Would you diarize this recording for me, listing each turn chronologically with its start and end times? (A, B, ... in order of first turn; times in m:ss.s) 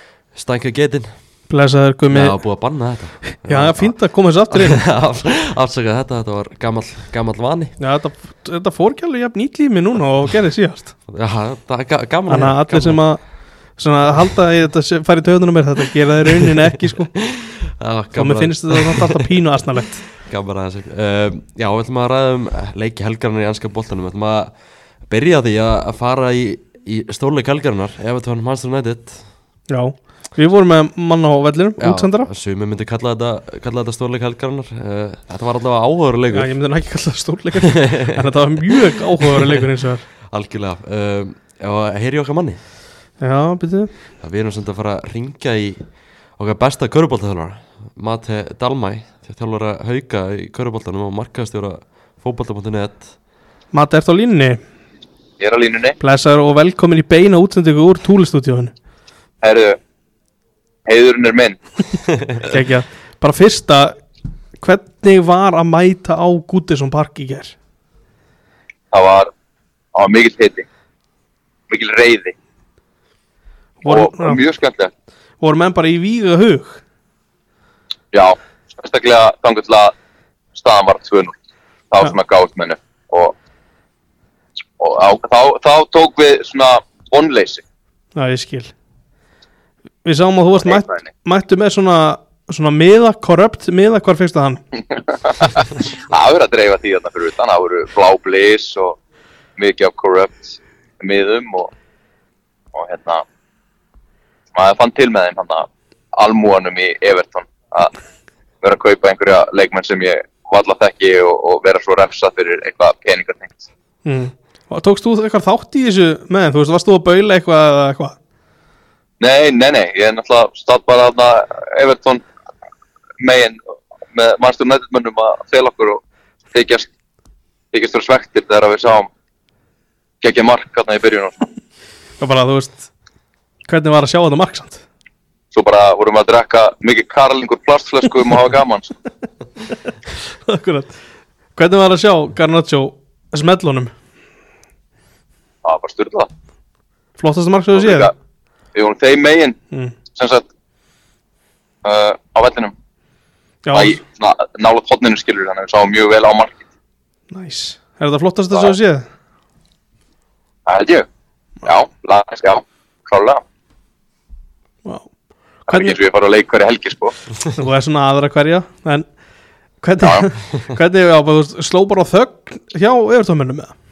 0:00.3-0:01.1 A
0:01.5-0:02.4 B
0:02.1-0:04.0 A
0:03.3-0:04.8 B
0:04.5-0:07.8 A
0:07.8-0:11.0 B
0:11.1-0:13.0 A
0:12.3-0:13.2 B
0:13.8-0:17.1 B
0:16.4-0:19.3 A
0:18.1-0:20.0 B
0:20.1-0:24.5 A
0:25.1-0:29.3 A
0:29.7-0:32.3 B
0:31.8-0:36.5 A
0:36.3-0:40.0 B
0:37.6-0:39.6 A
0:40.3-0:42.6 A
0:43.2-0:43.9 B
0:44.2-0:45.8 A
0:46.4-0:53.1 A
0:53.7-0:54.6 B
0:55.4-0:56.0 C
0:56.0-0:58.7 B
0:59.4-0:59.8 C
1:00.9-1:01.6 C
1:02.4-1:04.0 B
1:04.6-1:07.6 B
1:08.9-1:09.3 C
1:09.9-1:10.7 C
1:11.7-1:12.4 C
1:13.8-1:14.4 B
1:13.9-1:14.9 C
1:15.4-1:16.8 B
1:18.1-1:19.9 C
1:20.6-1:21.3 C
1:21.9-1:23.3 C
1:24.8-1:27.6 C
1:28.2-1:28.7 B
1:30.0-1:34.6 B
1:30.6-1:31.1 C
1:35.0-1:39.0 C
1:39.6-1:41.7 C
1:42.7-1:43.2 C
1:44.5-1:47.9 C
1:48.6-1:53.7 C
1:54.0-1:58.2 B
1:59.2-2:02.2 C
2:03.2-2:03.6 C
2:04.1-2:06.0 C
2:06.5-2:06.9 C
2:07.7-2:09.1 C
2:10.2-2:11.5 C
2:12.2-2:12.9 B
2:13.7-2:14.8 B
2:15.5-2:18.9 C
2:20.4-2:21.0 B
2:21.6-2:23.9 B
2:25.6-2:26.3 C
2:27.2-2:28.1 B
2:27.8-2:28.1 C
2:28.8-2:29.6 C
2:30.2-2:30.5 C
2:31.8-2:32.7 C
2:33.6-2:34.0 B
2:33.7-2:36.6 C
2:37.3-2:39.0 B
2:40.7-2:41.1 C
2:41.6-2:43.4 C
2:45.7-2:46.0 B
2:45.7-2:47.2 C
2:47.6-2:49.1 B
2:49.8-2:53.7 B
2:50.0-2:50.3 C